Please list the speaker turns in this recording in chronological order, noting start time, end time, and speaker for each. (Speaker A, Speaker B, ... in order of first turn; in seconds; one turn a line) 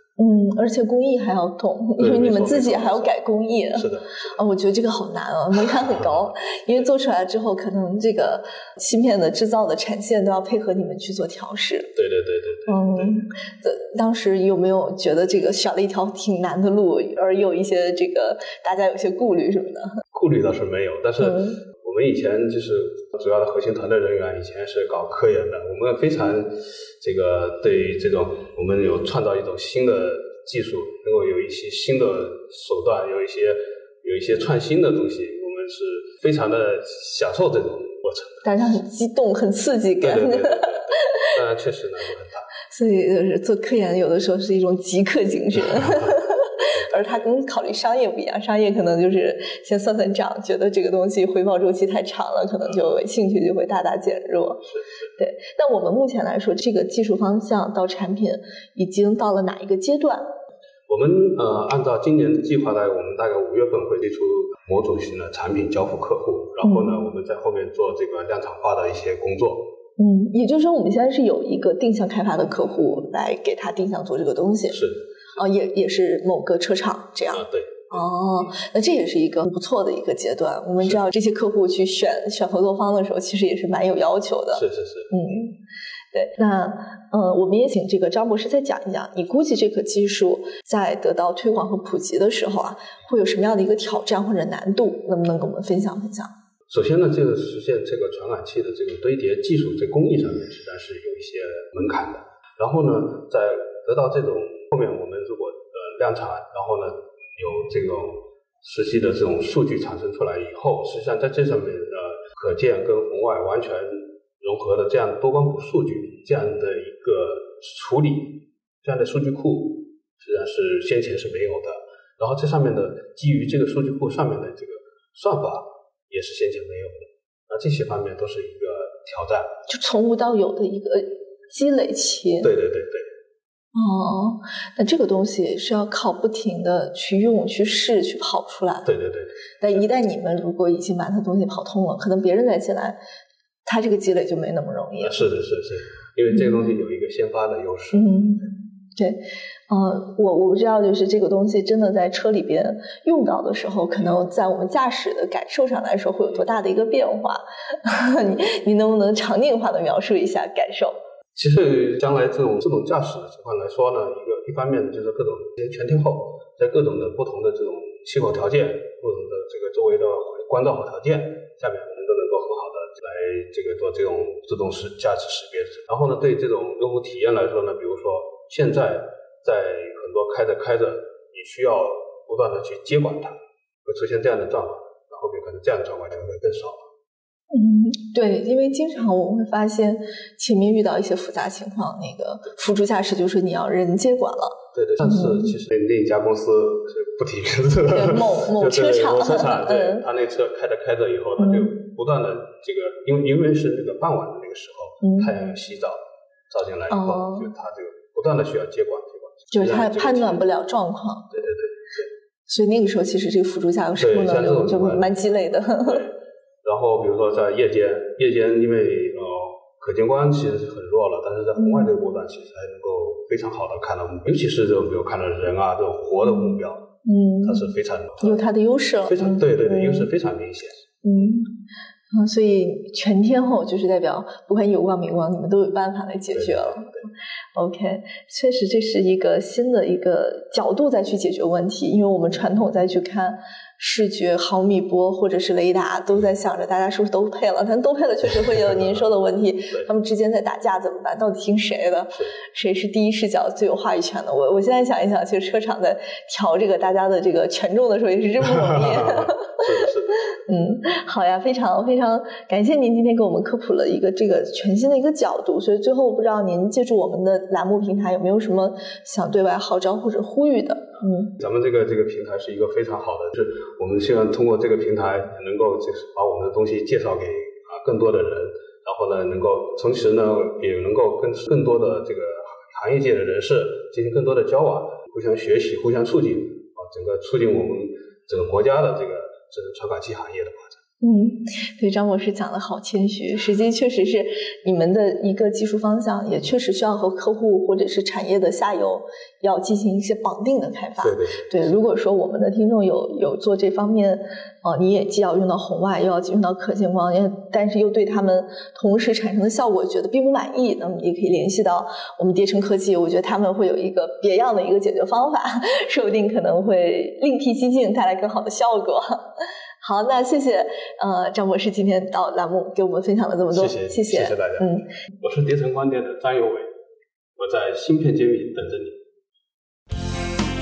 Speaker A: 0.2-11.9
Speaker B: 2.0-3.1
Speaker B: 3.7-4.4
Speaker B: 11.9-13.2
Speaker A: 12.7-19.9
Speaker B: 20.1-38.4
Speaker A: 21.2-21.6
Speaker A: 38.4-41.0
Speaker B: 40.0-42.5
Speaker A: 42.7-60.2
Speaker B: 45.6-47.3
Speaker B: 54.7-55.0
Speaker B: 60.9-69.7
Speaker A: 66.6-66.9
Speaker A: 70.0-74.8
Speaker B: 74.7-75.1
Speaker A: 75.3-85.5
Speaker B: 77.3-78.2
Speaker B: 84.5-85.1
Speaker A: 86.1-96.3
Speaker B: 96.7-129.5
Speaker A: 129.7-132.5
Speaker B: 132.4-133.1
Speaker A: 133.7-138.9
Speaker B: 138.8-139.8
Speaker A: 139.6-143.0
Speaker A: 143.7-145.2
Speaker B: 145.0-148.4
Speaker A: 147.9-160.9
Speaker B: 161.3-186.8
Speaker A: 187.5-195.5
Speaker B: 194.7-210.4
Speaker A: 197.9-200.0
Speaker A: 201.4-201.7
Speaker A: 205.0-205.3
Speaker A: 206.9-207.5
Speaker A: 209.5-211.3
Speaker B: 211.3-212.1
Speaker A: 212.5-216.1
Speaker B: 214.0-215.2
Speaker B: 215.8-226.8
Speaker A: 221.6-222.0
Speaker A: 226.2-227.7
Speaker B: 227.4-228.4
Speaker A: 228.2-230.1
Speaker B: 229.0-230.8
Speaker A: 231.0-231.5
Speaker A: 232.1-236.9
Speaker B: 236.3-237.1
Speaker A: 237.5-259.6
Speaker B: 258.4-260.3
Speaker A: 260.4-271.3
Speaker B: 271.4-290.8
Speaker A: 291.0-319.1
Speaker B: 301.0-301.8
Speaker A: 319.8-324.8
Speaker B: 323.5-324.7
Speaker B: 325.2-326.7
Speaker B: 327.4-329.0